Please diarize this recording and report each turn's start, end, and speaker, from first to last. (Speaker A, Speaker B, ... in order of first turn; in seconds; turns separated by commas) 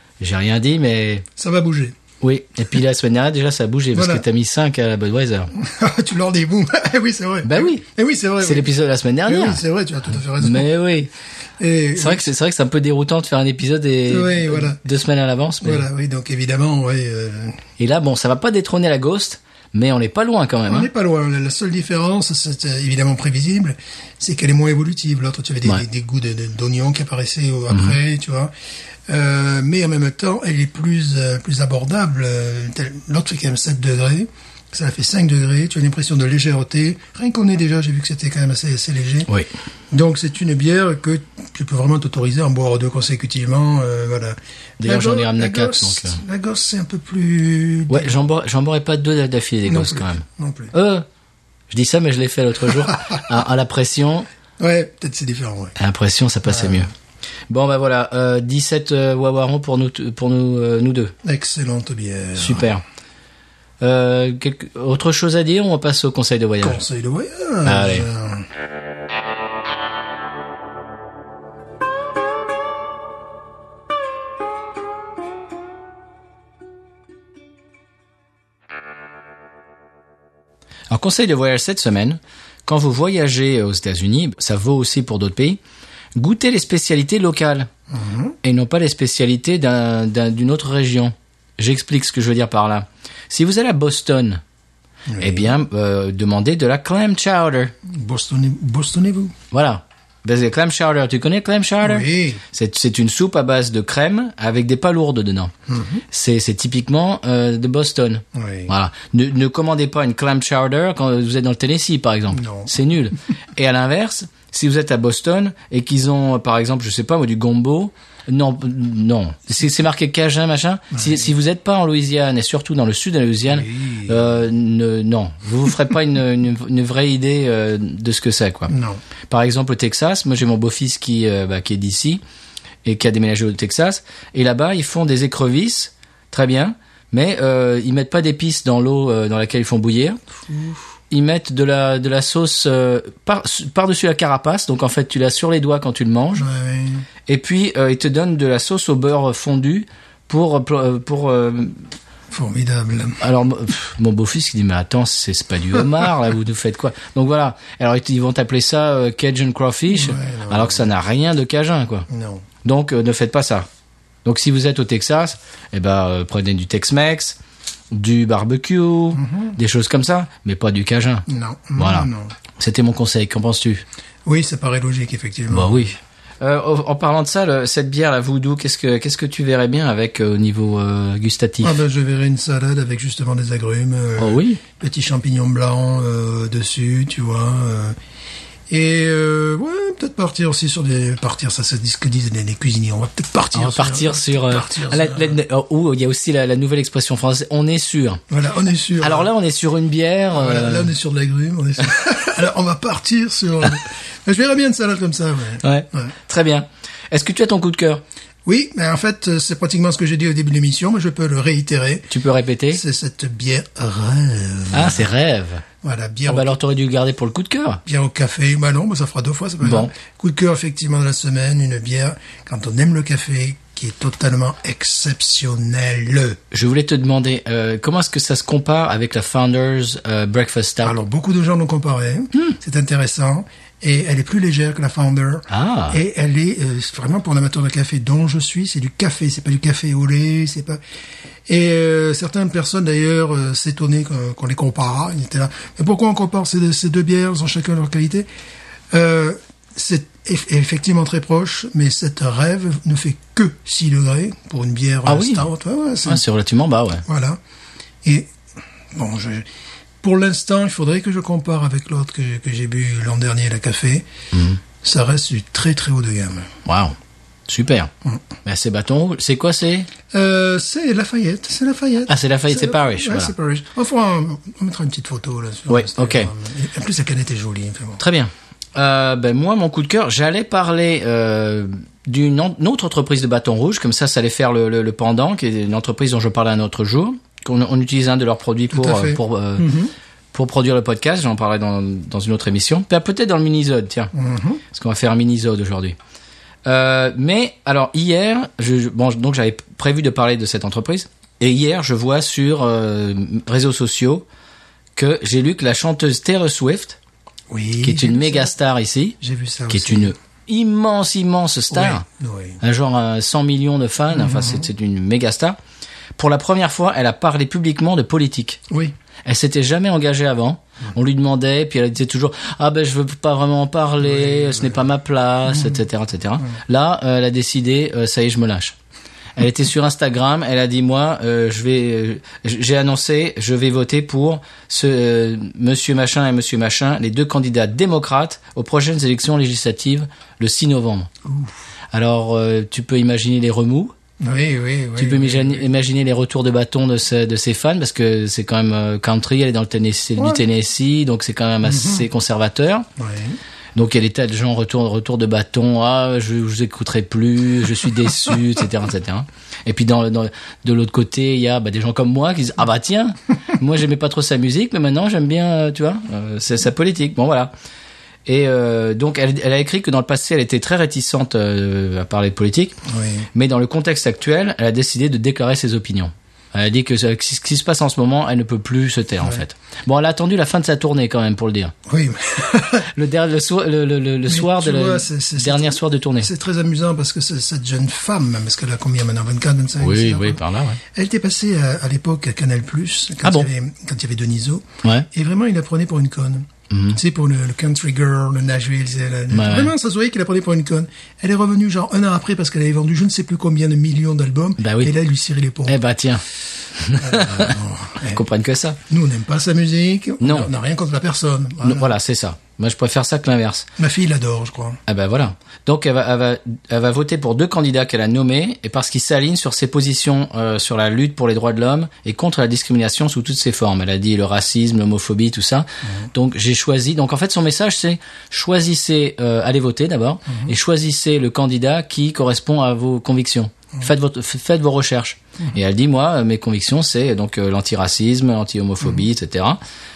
Speaker A: 0.2-1.2, Speaker B: 1.4-2.0, Speaker A: 2.2-5.5, Speaker B: 3.9-4.2, Speaker B: 5.5-8.7, Speaker A: 7.4-7.8, Speaker A: 8.4-9.6, Speaker B: 9.3-10.7, Speaker A: 10.4-11.1, Speaker B: 11.6-12.3, Speaker A: 12.0-15.9, Speaker B: 14.1-14.8, Speaker B: 15.6-17.6, Speaker A: 17.8-20.9, Speaker B: 20.7-28.5, Speaker B: 29.1-39.3, Speaker B: 39.9-48.2, Speaker A: 44.8-46.2, Speaker A: 47.9-51.1, Speaker B: 49.7-50.7, Speaker A: 51.7-54.3, Speaker B: 52.8-53.2, Speaker B: 54.6-55.8, Speaker A: 55.8-56.9, Speaker B: 56.5-56.9, Speaker A: 57.5-61.1, Speaker B: 61.2-62.7, Speaker A: 62.4-62.8, Speaker A: 63.8-66.8, Speaker B: 66.6-68.5, Speaker A: 67.7-68.1, Speaker A: 80.9-85.6, Speaker A: 86.2-87.7, Speaker B: 87.9-88.4, Speaker A: 88.4-94.4, Speaker B: 95.1-95.5, Speaker A: 95.2-97.7, Speaker B: 97.9-99.3, Speaker A: 99.5-105.5, Speaker B: 101.8-102.4, Speaker B: 105.7-106.0, Speaker A: 106.1-128.7, Speaker B: 108.3-108.7, Speaker B: 112.3-112.7, Speaker B: 120.9-121.3, Speaker B: 123.5-124.3, Speaker B: 128.7-129.0, Speaker A: 129.3-132.2, Speaker A: 132.8-140.2, Speaker B: 140.5-140.8, Speaker A: 141.1-146.4, Speaker B: 146.4-147.1, Speaker A: 147.3-151.9, Speaker B: 152.3-153.2, Speaker A: 153.2-162.1, Speaker B: 159.9-160.9, Speaker B: 162.1-162.4, Speaker A: 162.6-163.7, Speaker A: 164.2-167.4, Speaker A: 167.9-171.3, Speaker B: 169.1-169.6, Speaker B: 171.3-172.3, Speaker A: 171.8-173.8, Speaker B: 174.2-175.9, Speaker A: 175.5-181.8, Speaker B: 181.6-188.0, Speaker A: 184.2-184.6, Speaker B: 188.7-195.4, Speaker A: 193.5-198.2, Speaker B: 198.3-199.3, Speaker A: 199.0-200.9, Speaker B: 200.3-206.1, Speaker A: 205.6-208.0, Speaker B: 208.5-212.1, Speaker A: 212.1-212.8, Speaker B: 212.7-215.1, Speaker A: 214.7-215.7, Speaker B: 215.8-216.6, Speaker A: 216.3-217.8, Speaker B: 217.9-226.4, Speaker A: 219.6-219.9, Speaker A: 226.5-231.0, Speaker B: 230.8-240.8, Speaker A: 235.5-236.0, Speaker B: 241.5-248.3, Speaker B: 248.9-256.2, Speaker A: 255.1-255.5, Speaker A: 256.1-257.0, Speaker B: 257.1-257.4, Speaker B: 258.0-258.4, Speaker B: 258.9-259.5, Speaker B: 260.0-264.1, Speaker A: 264.3-264.6, Speaker B: 264.8-266.5, Speaker A: 266.7-267.0, Speaker A: 267.5-267.9, Speaker A: 268.4-269.9, Speaker B: 270.1-278.0, Speaker A: 272.1-273.3, Speaker A: 275.7-276.3, Speaker A: 278.0-289.7, Speaker B: 288.7-289.9, Speaker A: 290.3-294.1, Speaker B: 294.1-294.6, Speaker A: 294.7-296.0, Speaker A: 296.7-304.2, Speaker A: 305.0-307.0, Speaker B: 307.5-308.5, Speaker A: 307.8-309.2, Speaker B: 309.2-310.1, Speaker A: 309.7-312.1, Speaker B: 311.7-312.6, Speaker A: 312.6-315.6, Speaker B: 314.1-314.7, Speaker A: 316.2-318.6, Speaker A: 319.2-328.8, Speaker B: 324.0-324.9, Speaker B: 325.5-325.8, Speaker A: 329.4-341.1, Speaker B: 341.2-341.5, Speaker A: 341.9-343.9, Speaker B: 344.2-345.6, Speaker A: 345.0-352.9, Speaker B: 350.2-350.4, Speaker B: 351.6-352.1, Speaker B: 353.0-353.4, Speaker A: 353.8-367.5, Speaker A: 368.3-372.8, Speaker B: 372.9-373.3, Speaker A: 373.3-381.7, Speaker B: 381.9-382.9, Speaker A: 382.9-386.3, Speaker B: 384.3-405.8, Speaker A: 389.8-390.8, Speaker A: 393.2-393.5, Speaker A: 396.7-397.0, Speaker A: 399.3-399.7, Speaker A: 404.6-404.9, Speaker A: 405.7-407.6, Speaker B: 407.0-408.2, Speaker A: 408.1-408.8, Speaker B: 408.9-411.9, Speaker A: 410.2-410.5, Speaker A: 411.6-413.7, Speaker B: 413.8-414.8, Speaker A: 414.9-439.6, Speaker B: 430.3-430.5